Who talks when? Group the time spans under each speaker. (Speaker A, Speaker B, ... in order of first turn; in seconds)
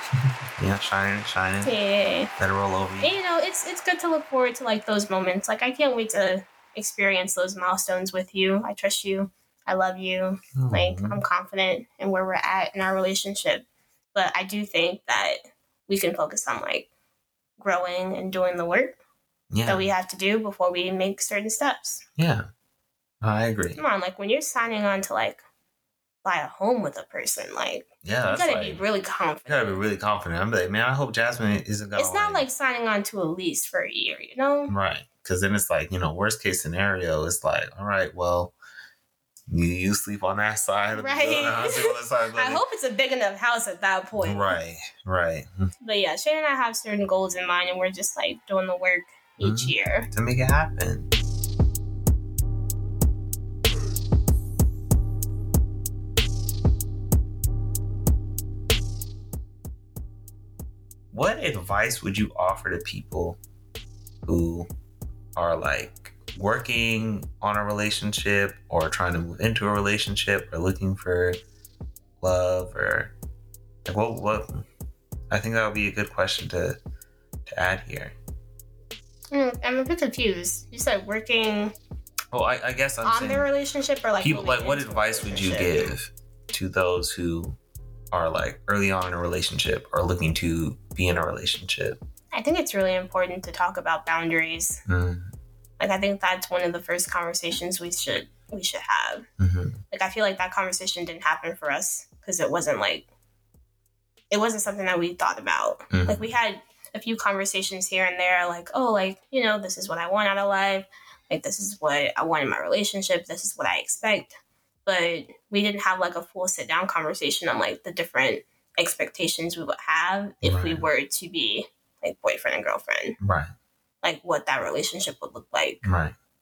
Speaker A: 0.6-1.7, 2.4-3.1, 10.6-11.2, 19.5-19.9, 22.2-22.5, 23.2-23.8, 28.0-28.8, 29.4-32.4, 34.7-38.5, 39.5-42.6, 44.2-45.7, 49.4-51.1, 61.1-63.4, 64.2-64.7, 65.3-71.4, 72.2-73.1, 73.8-74.7, 75.3-76.8, 77.5-78.1, 82.3-83.5, 84.2-87.6, 88.1-92.0, 94.9-95.3, 99.4-99.8, 105.9-106.3, 120.4-120.9, 123.2-123.5, 125.8-126.1
Speaker B: 1.6-2.3, 3.0-16.9, 17.6-19.0, 19.6-22.0, 23.8-25.4, 26.2-29.8, 31.9-34.7, 40.9-44.6, 45.8-50.1, 79.3-81.7, 83.0-85.9, 92.3-94.8, 95.8-99.2, 99.9-103.0, 104.3-123.2, 124.0-125.8